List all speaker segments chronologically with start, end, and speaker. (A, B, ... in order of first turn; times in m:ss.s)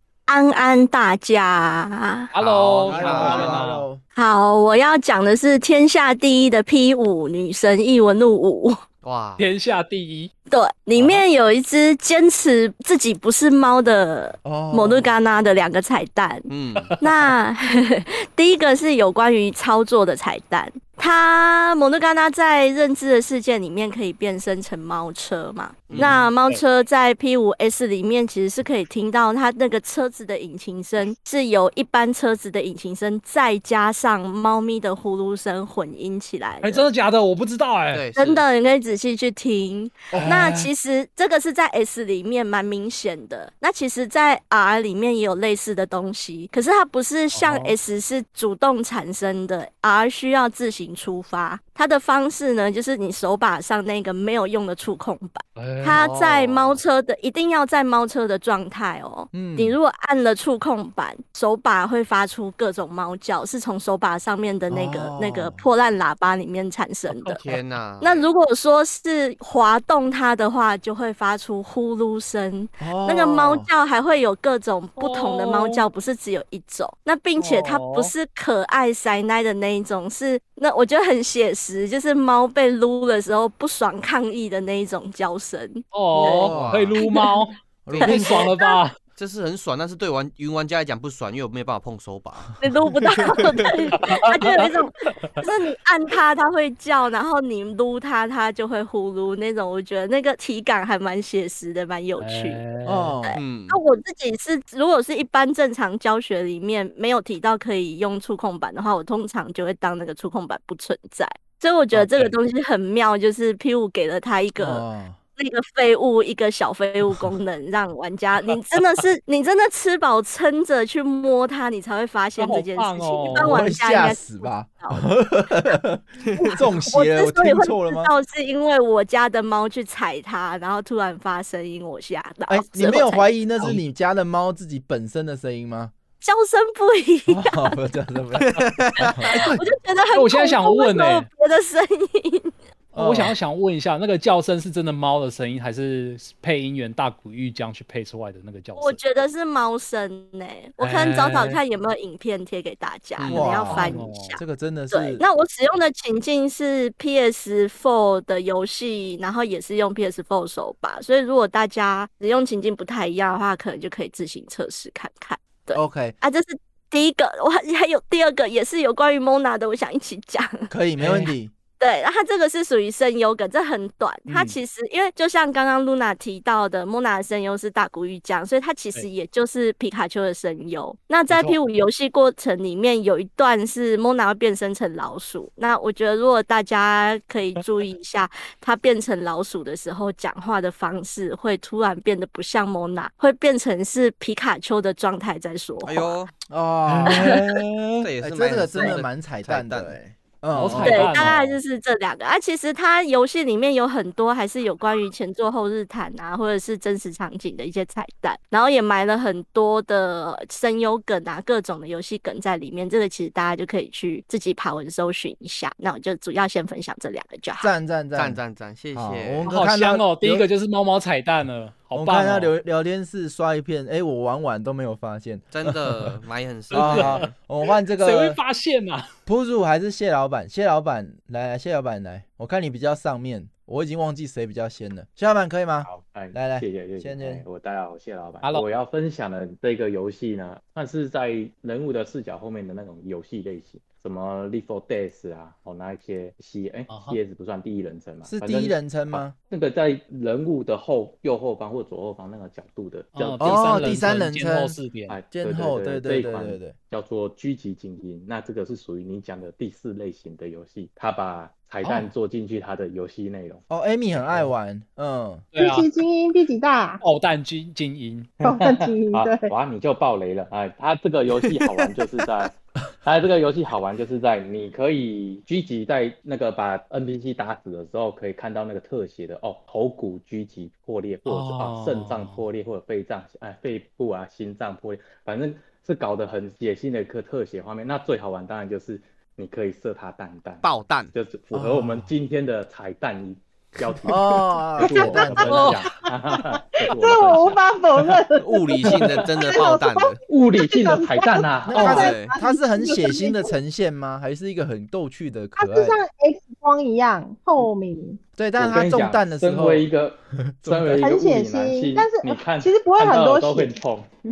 0:00.3-0:02.3 A
0:02.3-0:03.9 B
0:02.4-0:03.7 C
0:02.9-0:04.0 D
0:04.2-0:08.8 A
0:09.0-0:09.5 C
0:09.4-0:10.3 B
0:10.5-0:16.5 A
0:11.0-0:11.2 B
0:14.4-0:15.1 D
0:16.5-0:17.0 C
0:17.0-0:36.9 A
0:25.9-0:26.3 C
0:26.0-0:26.6 B
0:36.6-0:38.1 B
0:37.9-0:38.4 C
0:38.2-1:07.4 A
0:40.1-0:40.6 D
0:40.2-0:40.6 B
0:47.3-0:47.8 B
0:55.6-0:56.1 B
0:55.9-0:56.8 C
0:59.3-0:59.8 D
1:04.7-1:05.7 D
1:07.1-1:08.2 C
1:08.0-1:26.2 A
1:12.8-1:13.7 D
1:15.0-1:15.8 B
1:17.4-1:18.1 B
1:25.9-1:29.0 B
1:26.1-1:26.7 D
1:26.3-1:27.0 C
1:27.0-1:27.4 A
1:27.9-1:28.5 D
1:28.0-1:28.8 A
1:29.2-1:32.6 C
1:32.6-1:42.6 A
1:33.2-1:33.7 C
1:34.0-1:35.4 B
1:42.2-1:43.2 B
1:42.8-1:43.4 D
1:43.4-1:43.8 C
1:43.4-1:54.8 A
1:51.9-1:52.4 B
1:54.6-1:55.2 D
1:55.4-2:05.0 A
2:02.4-2:03.6 B
2:03.3-2:08.1 D
2:06.4-2:13.5 A
2:12.5-2:15.9 D
2:16.2-2:17.7 A
2:17.3-2:19.6 D
2:19.0-2:19.6 B
2:19.5-2:22.5 A
2:20.1-2:21.3 B
2:22.9-2:29.0 B
2:23.0-2:23.3 D
2:28.8-2:50.7 A
2:30.8-2:31.6 B
2:33.2-2:33.9 C
2:33.3-2:35.2 D
2:33.7-2:34.4 B
2:45.7-2:46.2 D
2:50.7-2:51.5 D
2:51.0-2:51.3 B
2:51.8-3:16.2 A
2:54.3-2:54.6 B
3:01.3-3:01.6 B
3:15.8-3:16.3 C
3:16.5-3:21.2 D
3:16.9-3:17.3 B
3:18.0-3:20.1 C
3:20.5-3:21.6 B
3:20.8-3:37.7 A
3:21.0-3:21.4 C
3:37.6-3:38.4 D
3:38.1-3:39.6 C
3:38.9-3:40.5 D
3:39.5-3:42.5 B
3:41.9-3:46.2 D
3:45.5-3:47.4 C
3:46.7-3:47.3 B
3:46.7-3:48.4 D
3:48.0-3:49.1 B
3:49.3-3:57.4 D
3:55.9-4:14.2 E
4:06.9-4:07.2 B
4:08.2-4:09.3 D
4:13.2-4:15.2 B
4:13.4-4:14.8 D
4:15.1-4:23.6 E
4:15.3-4:16.8 D
4:21.8-4:22.1 B
4:23.7-4:25.5 D
4:25.5-4:25.9 B
4:25.6-4:27.0 F
4:27.0-4:28.3 B
4:28.4-4:29.5 F
4:28.4-4:57.6 E
4:41.2-4:42.4 B
4:50.6-4:51.1 C
4:51.5-4:52.1 D
4:54.0-4:55.8 D
4:54.8-4:55.6 F
4:55.5-4:55.8 B
4:56.4-5:03.5 F
4:58.4-5:00.2 C
5:00.3-5:02.0 E
5:01.7-5:06.0 D
5:01.8-5:02.3 C
5:05.6-5:08.2 F
5:08.4-5:09.9 D
5:08.6-5:14.1 E
5:10.5-5:11.1 D
5:11.0-5:13.8 F